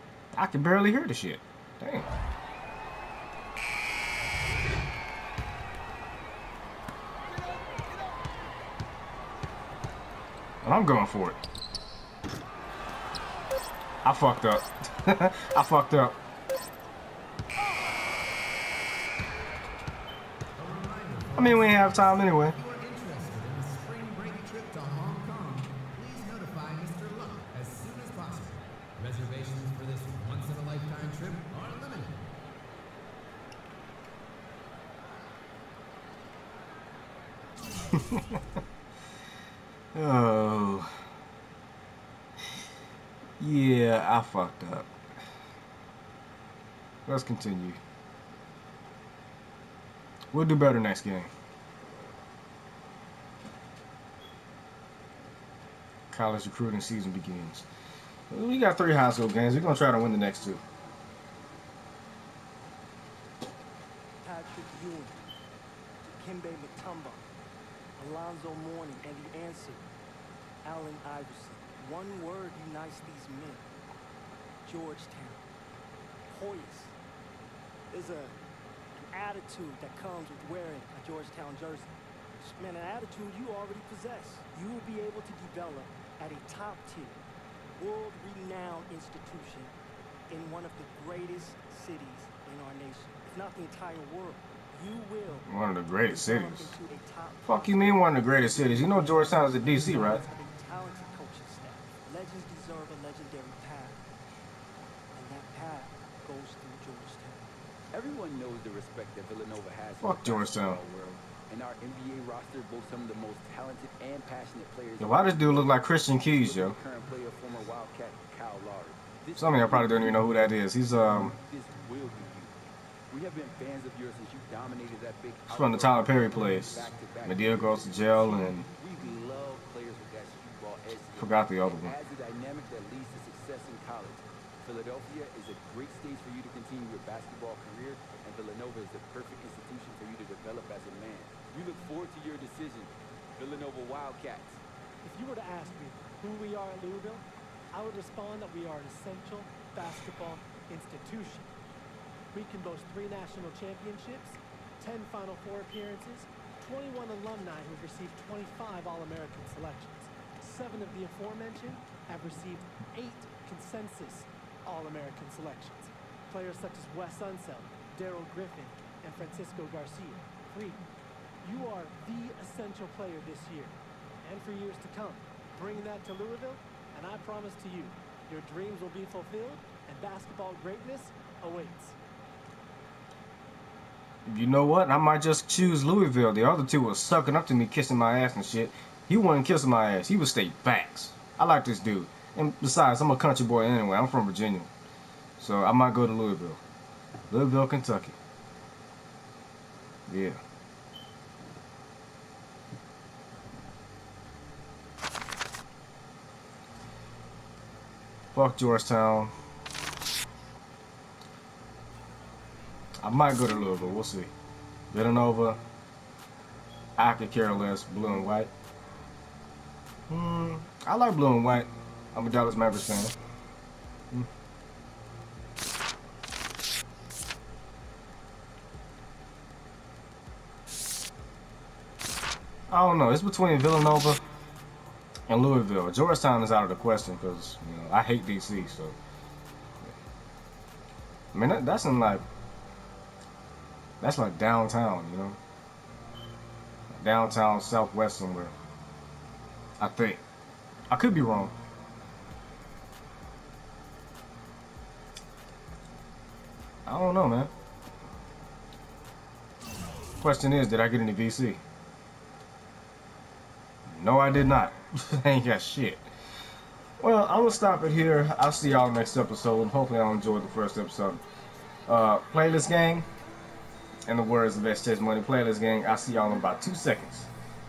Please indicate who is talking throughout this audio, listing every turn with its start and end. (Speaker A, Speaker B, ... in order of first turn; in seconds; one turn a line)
Speaker A: 0.3-2.1
Speaker A: 10.6-11.4
Speaker A: 14.0-16.2
Speaker B: 20.6-32.2
Speaker A: 21.4-22.6
Speaker A: 37.9-38.4
Speaker A: 39.9-40.9
Speaker A: 43.4-44.9
Speaker A: 47.1-47.8
Speaker A: 50.3-51.3
Speaker A: 56.1-57.7
Speaker A: 58.3-60.6
Speaker C: 64.2-65.2
Speaker C: 66.0-67.3
Speaker C: 68.0-69.9
Speaker C: 70.6-73.7
Speaker C: 74.6-75.5
Speaker C: 76.3-77.0
Speaker C: 77.9-78.4
Speaker C: 79.0-87.2
Speaker C: 87.8-89.8
Speaker C: 90.3-95.5
Speaker A: 95.5-96.8
Speaker C: 96.0-104.0
Speaker A: 97.5-100.2
Speaker C: 105.1-107.5
Speaker D: 107.9-120.3
Speaker A: 110.0-110.8
Speaker A: 115.0-116.8
Speaker A: 119.4-121.3
Speaker D: 121.3-122.5
Speaker D: 123.1-144.6
Speaker A: 125.5-128.7
Speaker A: 131.2-131.9
Speaker E: 145.0-151.5
Speaker E: 152.3-170.8
Speaker E: 171.4-182.0
Speaker A: 184.3-194.7
Speaker A: 195.4-196.6
Speaker A: 197.3-198.2
Speaker A: 200.1-200.4
Speaker A: 208.3-209.3
Speaker A: 213.0-214.3
Speaker A: 214.9-215.6
Speaker A: 217.0-218.5
Speaker A: 220.1-223.1
Speaker A: 232.7-234.2
Speaker A: 235.3-239.0
Speaker A: 241.3-242.2
Speaker A: 244.0-245.4
Speaker A: 246.9-248.5
Speaker A: 249.8-250.2
Speaker A: 250.9-251.5
Speaker A: 256.9-257.5
Speaker A: 260.2-261.6
Speaker A: 263.9-266.1
Speaker A: 267.0-271.2
Speaker A: 271.9-273.1
Speaker A: 274.1-277.3